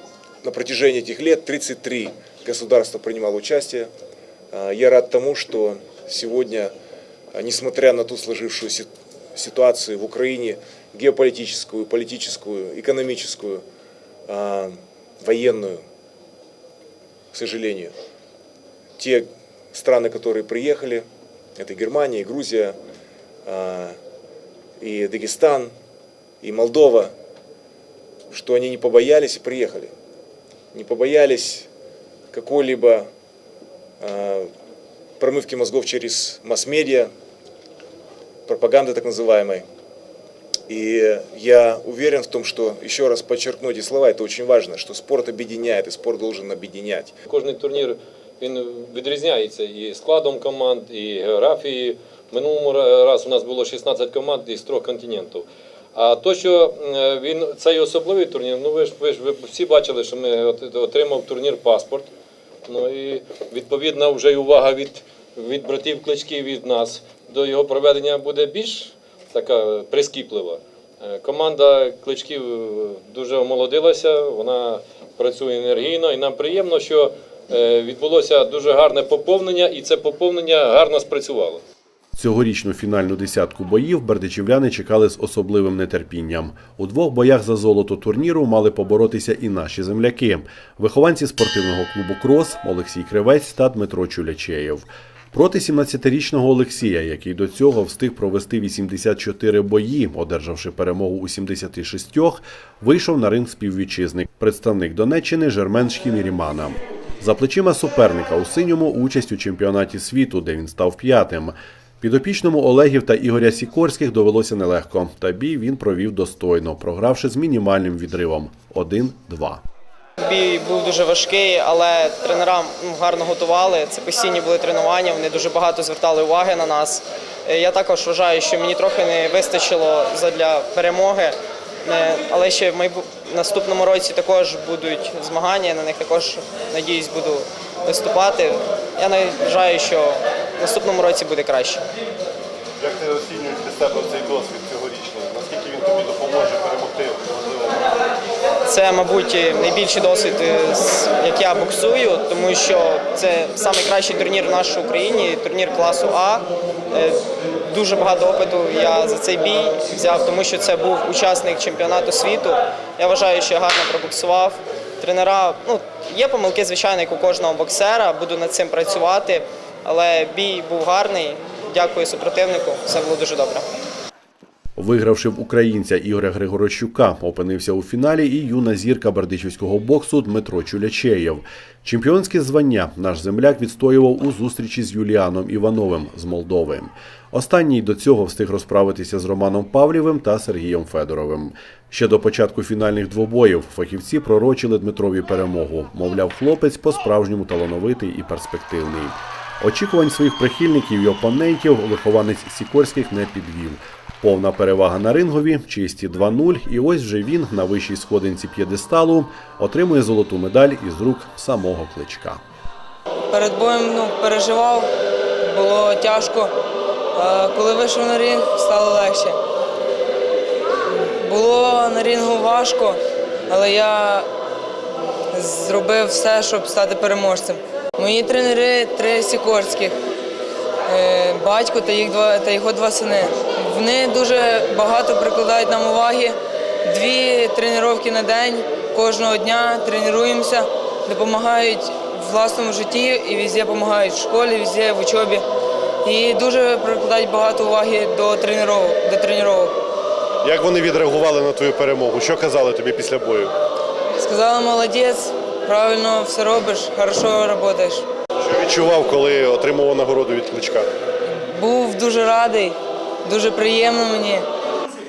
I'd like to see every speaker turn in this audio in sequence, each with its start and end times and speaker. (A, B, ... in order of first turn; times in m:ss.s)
0:00.4-0:03.9 A
0:04.5-0:06.7 A
0:07.3-0:13.6 A
0:14.3-0:15.8 A
0:17.3-0:17.9 A
0:19.0-0:21.0 A
0:21.6-0:22.8 A
0:23.4-0:24.0 A
0:24.8-0:25.7 A
0:26.4-0:27.1 A
0:28.3-0:29.9 A
0:30.7-0:31.7 A
0:32.3-0:33.1 A
0:34.0-0:34.5 A
0:35.2-0:37.1 A
0:38.4-0:39.6 A
0:40.7-0:47.1 A
0:47.3-1:02.1 B
1:02.7-1:21.6 B
1:22.2-1:59.6 C
2:00.2-2:21.8 D
2:22.8-2:28.0 E
2:28.6-2:53.6 D
2:54.8-3:32.4 C
3:33.3-3:36.5 F
3:37.1-3:39.4 F
3:40.9-3:44.3 F
3:45.3-3:50.0 F
3:50.8-4:05.4 F
4:06.0-4:09.7 F
4:10.4-4:13.5 E
4:14.2-4:18.0 F
4:18.4-4:20.9 E
4:21.3-4:24.4 F